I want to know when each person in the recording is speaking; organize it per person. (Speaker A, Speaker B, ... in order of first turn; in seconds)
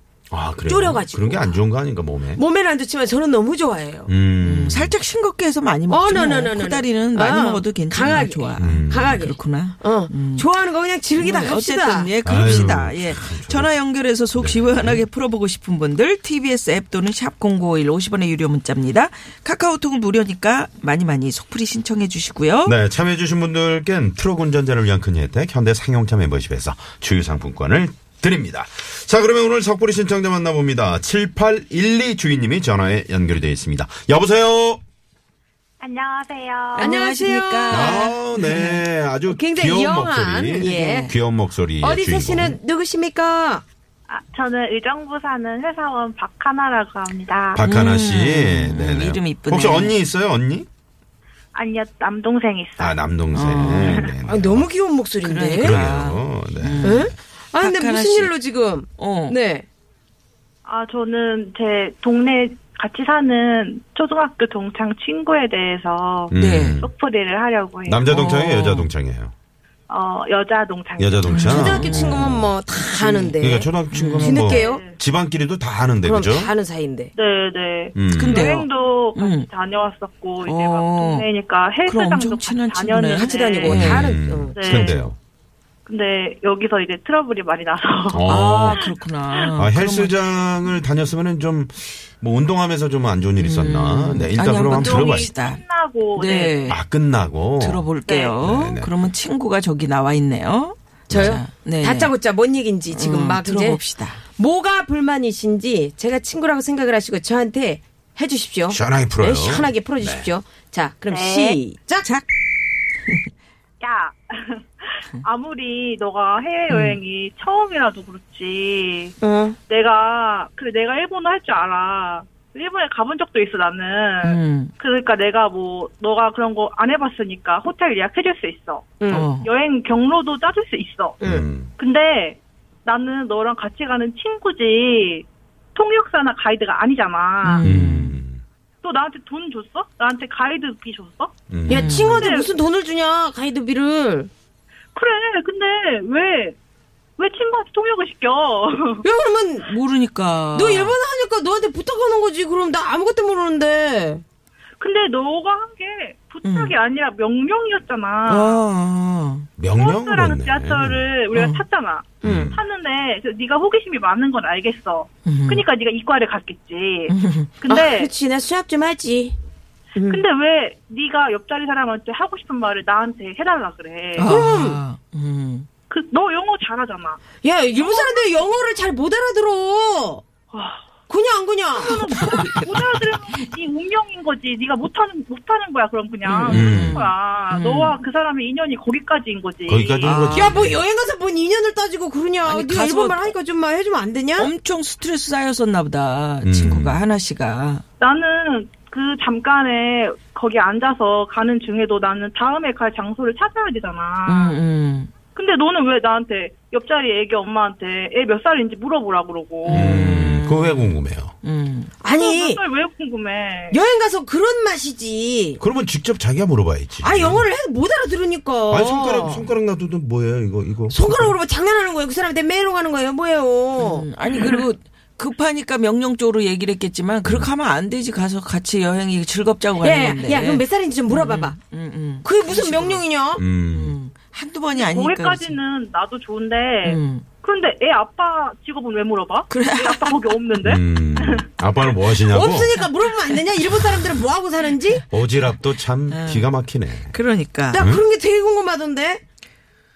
Speaker A: 0.3-2.4, 4.1-5.0, 8.6-9.2, 12.2-13.8, 14.4-15.1, 22.6-34.8, 37.7-42.6, 47.5-50.7, 52.8-54.7, 55.6-57.1, 66.3-66.9, 67.9-69.3, 71.0-72.5, 73.2-76.5, 78.0-78.5, 83.7-85.2, 88.1-88.9, 89.6-95.3, 96.7-97.9, 98.4-98.9, 101.1-101.4, 108.7-110.3, 131.2-131.7, 137.6-138.4, 141.5-142.0, 159.6-161.1, 162.2-162.6, 186.5-187.1, 189.7-190.8, 196.4-197.0, 209.7-211.3, 215.6-217.4, 218.7-221.3, 227.2-227.5, 233.4-234.0, 240.6-242.7, 245.1-247.1, 247.8-248.0
Speaker B: 0.7-1.6, 2.4-4.1, 5.9-12.1, 36.8-38.2, 39.3-41.1, 41.8-43.6, 54.2-55.8, 56.8-59.7, 71.5-73.7, 74.2-74.8, 76.0-77.1, 83.2-85.0, 101.1-103.8, 104.4-112.1, 119.2-119.6, 129.0-129.3, 141.7-144.3, 149.0-149.7, 150.5-154.2, 162.2-162.6, 167.7-169.4, 169.9-170.2, 174.2-174.8, 177.4-180.2, 181.1-182.0, 190.3-194.5, 212.0-212.6, 213.7-215.6, 217.0-219.5, 220.9-224.1, 229.8-231.6, 232.2-233.4, 242.2-245.0, 247.7-249.2
Speaker C: 4.4-10.5, 11.2-22.8, 36.7-38.8, 40.6-41.1, 47.6-50.0, 53.3-54.1, 55.2-58.3, 59.0-59.4, 66.3-66.8, 68.1-68.9, 71.3-72.4, 73.0-73.3, 73.9-74.4, 78.1-79.5, 80.4-81.3, 81.8-84.1, 88.3-90.2, 93.4-95.6, 96.2-96.8, 97.6-102.1, 102.9-104.2, 116.7-117.0, 124.2-124.7, 129.1-129.5, 137.4-138.2, 141.7-142.2, 149.6-151.0, 156.4-156.7, 158.3-159.5, 161.3-161.6, 165.2-165.6, 167.1-167.5, 174.2-175.7, 181.8-182.8, 186.2-188.0, 190.0-190.7, 192.4-193.3, 194.4-197.8, 204.3-205.1, 209.7-211.9, 223.8-233.0, 233.7-235.6, 236.8-237.3, 239.5-240.2, 246.1-246.5, 247.0-247.8
Speaker D: 35.8-37.0, 44.1-47.6, 51.5-53.0, 60.6-68.0, 69.9-71.5, 74.4-75.0, 77.2-83.9, 84.5-85.0, 85.9-88.3, 88.8-89.5, 94.6-96.7, 98.1-98.4, 111.1-111.6, 113.8-119.2, 119.7-131.2, 131.8-137.7, 138.8-141.3, 142.2-142.5, 144.9-146.6, 147.2-149.0, 154.8-158.6, 159.8-168.1, 170.1-174.3, 175.9-177.2, 177.8-178.5, 180.5-180.8, 181.8-190.1, 198.0-204.6, 205.3-210.0, 212.1-213.8, 234.7-241.5